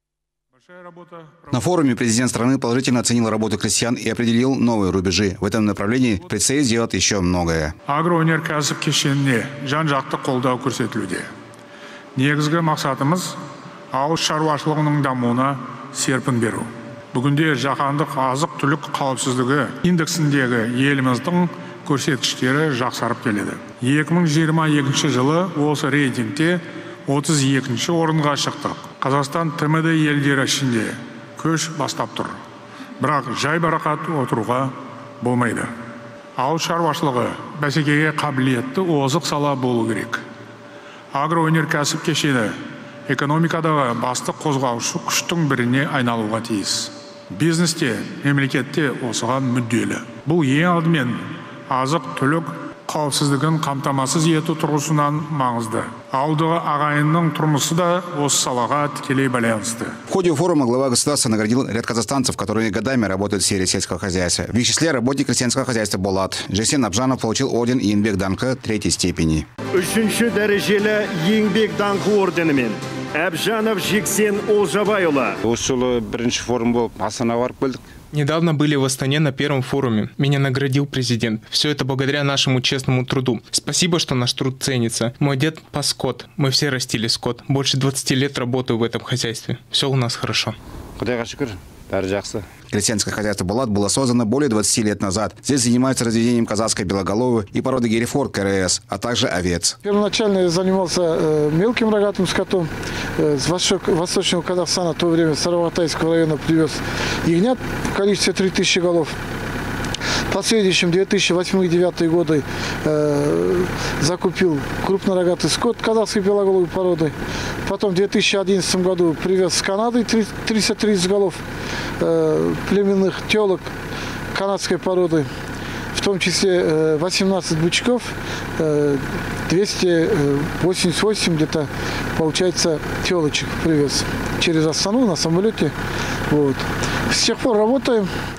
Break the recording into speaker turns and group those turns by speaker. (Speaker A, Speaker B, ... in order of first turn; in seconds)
Speaker A: 0.6-1.5, 7.9-11.2, 12.2-13.3, 13.9-32.4, 33.0-35.7, 36.4-40.2, 41.1-42.5, 43.1-60.0
Speaker B: 1.5-7.7, 60.1-69.5, 92.7-99.8
Speaker C: 69.7-75.3
Speaker D: 75.4-77.8, 91.0-92.5
Speaker E: 78.1-90.5
Speaker F: 99.8-109.1, 110.3-121.4, 122.0-123.7, 124.3-125.3, 125.9-135.7, 136.3-138.1